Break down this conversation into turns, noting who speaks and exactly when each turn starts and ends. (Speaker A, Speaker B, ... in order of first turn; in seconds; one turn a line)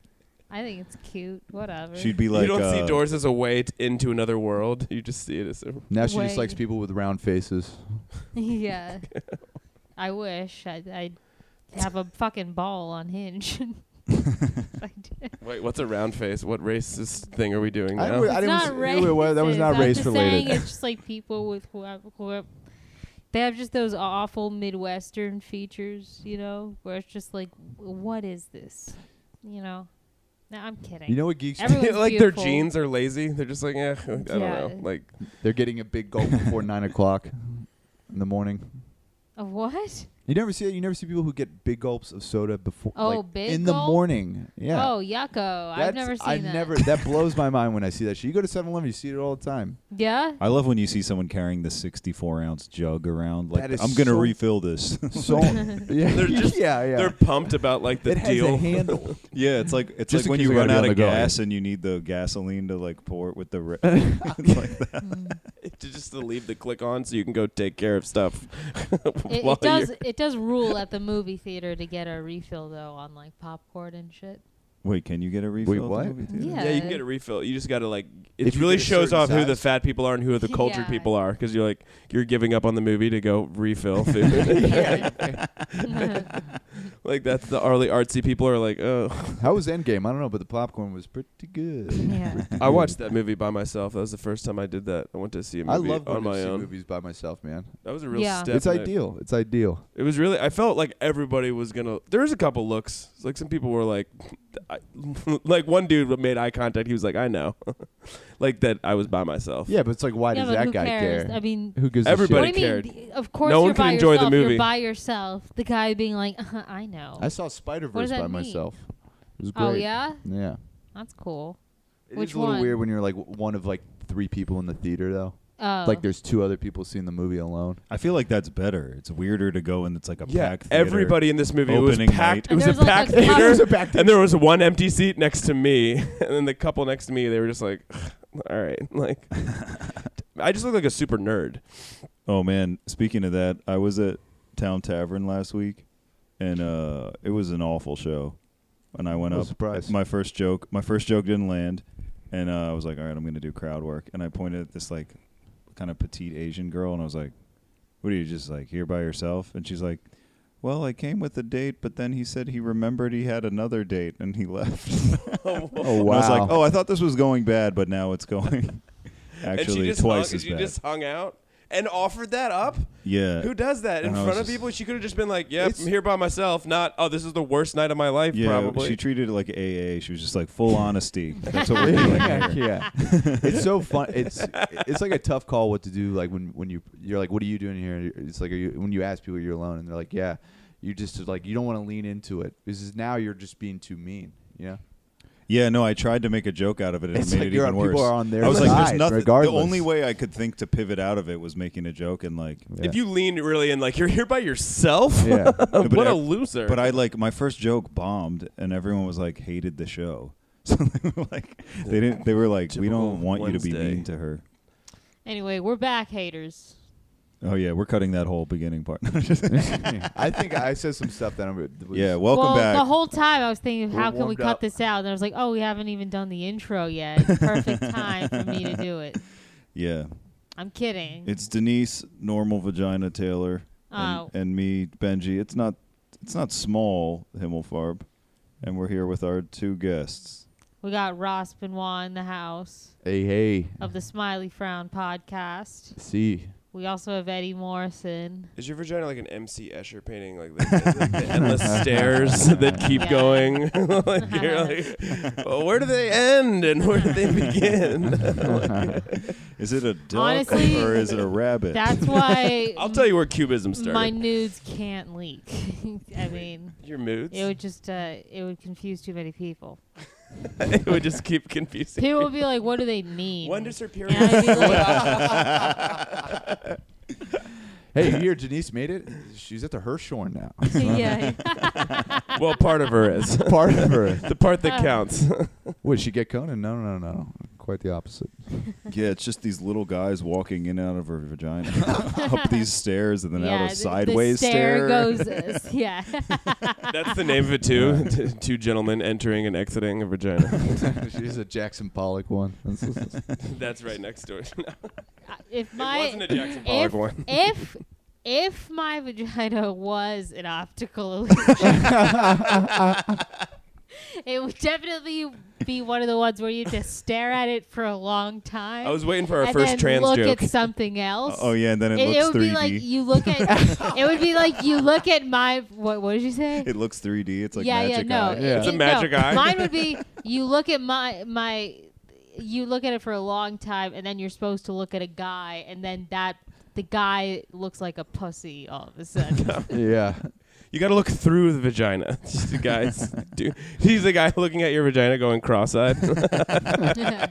Speaker A: 0.5-2.2
Speaker B: 1.9-3.1
Speaker C: 2.3-5.9
Speaker D: 5.9-8.1
Speaker A: 6.0-6.6
Speaker A: 8.3-14.1
Speaker C: 9.1-9.4
Speaker A: 14.7-15.3
Speaker C: 15.4-18.7
Speaker D: 17.9-20.7
Speaker A: 18.2-32.7
Speaker D: 31.1-31.8
Speaker C: 31.7-35.4
Speaker A: 34.2-34.9
Speaker D: 35.4-38.8
Speaker A: 39.4-40.1
Speaker D: 40.2-49.8
Speaker A: 42.9-47.1
Speaker A: 49.9-50.4
Speaker B: 50.4-55.7
Speaker D: 53.5-59.4
Speaker C: 56.0-59.1
Speaker B: 59.3-65.4
Speaker D: 60.1-61.4
Speaker D: 64.0-64.5
Speaker A: 65.0-65.4
Speaker C: 65.6-70.5
Speaker A: 69.3-74.4
Speaker B: 74.8-76.9
Speaker D: 75.6-76.2
Speaker A: 76.3-77.0
Speaker C: 76.5-85.6
Speaker D: 78.4-79.6
Speaker A: 80.4-81.1
Speaker D: 84.5-85.4
Speaker A: 86.0-86.2
Speaker C: 87.0-89.5
Speaker D: 89.4-93.0
Speaker A: 92.1-92.4
Speaker C: 92.6-96.7
Speaker D: 95.7-99.8
Speaker C: 97.8-99.1
Speaker A: 98.1-98.5
Speaker C: 99.9-109.8
Speaker D: 109.7-112.7
Speaker A: 110.3-122.8
Speaker C: 112.0-114.7
Speaker D: 117.2-120.6
Speaker D: 122.1-127.8
Speaker A: 125.6-126.0
Speaker B: 127.9-132.9
Speaker C: 130.2-142.1
Speaker A: 132.5-133.7
Speaker D: 133.1-134.2
Speaker B: 142.2-165.4
Speaker D: 149.2-149.9
Speaker C: 165.4-166.5
Speaker D: 165.8-166.6
Speaker B: 166.0-170.8
Speaker C: 169.5-179.0
Speaker B: 173.0-174.7
Speaker D: 175.6-175.9
Speaker B: 178.3-183.6
Speaker D: 181.7-194.8
Speaker A: 182.0-182.7
Speaker C: 184.7-185.0
Speaker B: 195.5-202.7
Speaker D: 197.1-199.9
Speaker C: 198.4-198.9
Speaker D: 202.7-203.0
Speaker C: 202.8-207.0
Speaker D: 205.2-205.7
Speaker B: 205.7-214.4
Speaker C: 211.8-214.1
Speaker A: 215.2-216.8
Speaker B: 217.4-220.1
Speaker D: 219.5-222.3
Speaker B: 221.9-223.1
Speaker A: 222.3-229.3
Speaker D: 223.9-224.6
Speaker B: 229.7-230.6
Speaker A: 230.5-231.3
Speaker B: 231.2-240.5
Speaker A: 233.9-234.3
Speaker A: 240.8-243.0
Speaker D: 243.0-243.9
Speaker A: 243.8-248.5
Speaker D: 245.9-246.6
Speaker C: 248.5-259.1
Speaker D: 251.9-252.8
Speaker A: 252.9-255.0
Speaker B: 259.5-262.2
Speaker A: 260.1-269.8
Speaker C: 262.7-264.2
Speaker C: 266.2-267.5
Speaker C: 270.6-272.3
Speaker A: 272.0-275.2
Speaker C: 273.4-276.3
Speaker D: 277.9-281.4
Speaker A: 280.7-282.2
Speaker B: 280.8-281.6
Speaker C: 282.3-285.7
Speaker D: 283.4-284.3
Speaker A: 284.6-284.9
Speaker D: 285.8-288.7
Speaker B: 288.9-295.4
Speaker A: 293.3-296.8
Speaker C: 296.9-300.9
Speaker D: 297.7-298.1
Speaker D: 300.9-303.3
Speaker C: 303.4-304.9
Speaker A: 305.2-312.1
Speaker C: 305.7-307.5
Speaker A: 314.2-326.8
Speaker C: 318.8-320.5
Speaker B: 321.2-323.2
Speaker D: 323.6-323.9
Speaker B: 326.6-328.6
Speaker A: 327.5-339.7
Speaker D: 328.3-328.7
Speaker C: 328.6-329.8
Speaker C: 339.4-339.7
Speaker D: 339.7-340.4
Speaker C: 340.7-346.9